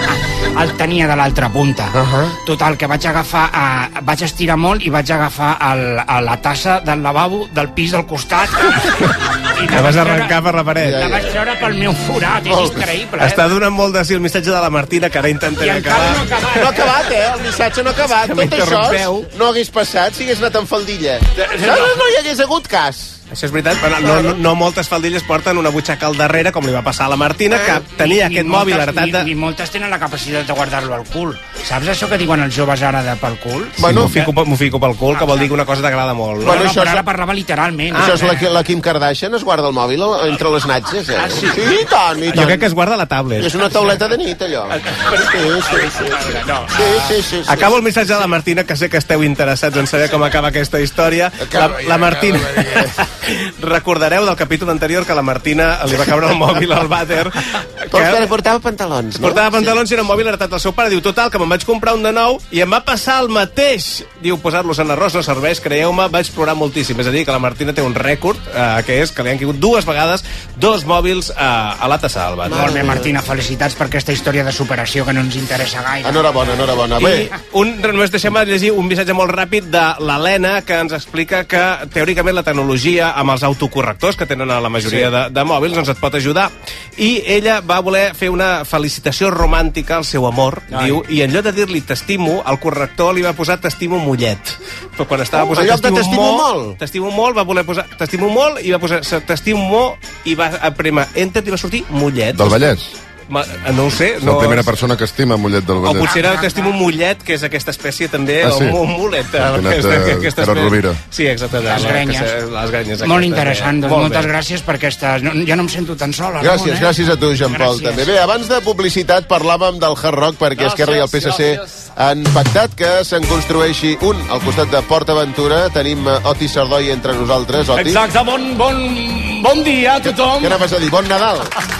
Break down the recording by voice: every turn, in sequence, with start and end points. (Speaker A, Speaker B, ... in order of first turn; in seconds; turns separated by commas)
Speaker A: 0.6-13.4, Speaker B: 1.9-2.4, Speaker C: 9.7-11.0, Speaker B: 10.8-11.2, Speaker B: 12.5-12.8, Speaker C: 13.2-16.2, Speaker A: 15.6-16.9, Speaker B: 16.5-23.2, Speaker C: 18.2-19.2, Speaker A: 21.4-21.9, Speaker C: 23.3-29.3, Speaker A: 27.9-34.3, Speaker C: 33.8-36.7, Speaker B: 33.8-34.1, Speaker A: 35.1-35.5, Speaker A: 36.4-38.5, Speaker B: 36.4-37.0, Speaker B: 37.9-42.6, Speaker A: 41.2-41.7, Speaker C: 42.3-43.5, Speaker B: 43.4-47.7, Speaker A: 46.1-47.0, Speaker C: 47.5-58.3, Speaker B: 51.4-52.9, Speaker B: 57.9-59.8, Speaker C: 59.2-72.9, Speaker B: 72.4-73.1, Speaker A: 72.5-77.2, Speaker B: 76.0-77.3, Speaker C: 77.0-102.7, Speaker B: 95.5-96.8, Speaker D: 102.3-102.9, Speaker C: 103.3-104.7, Speaker D: 104.2-106.1, Speaker C: 105.8-114.3, Speaker A: 106.0-106.7, Speaker D: 108.4-108.8, Speaker D: 109.3-111.0, Speaker A: 111.6-112.3, Speaker A: 113.0-116.9, Speaker B: 116.4-128.0, Speaker A: 117.5-118.1, Speaker E: 120.5-121.6, Speaker E: 127.7-130.6, Speaker B: 130.0-131.5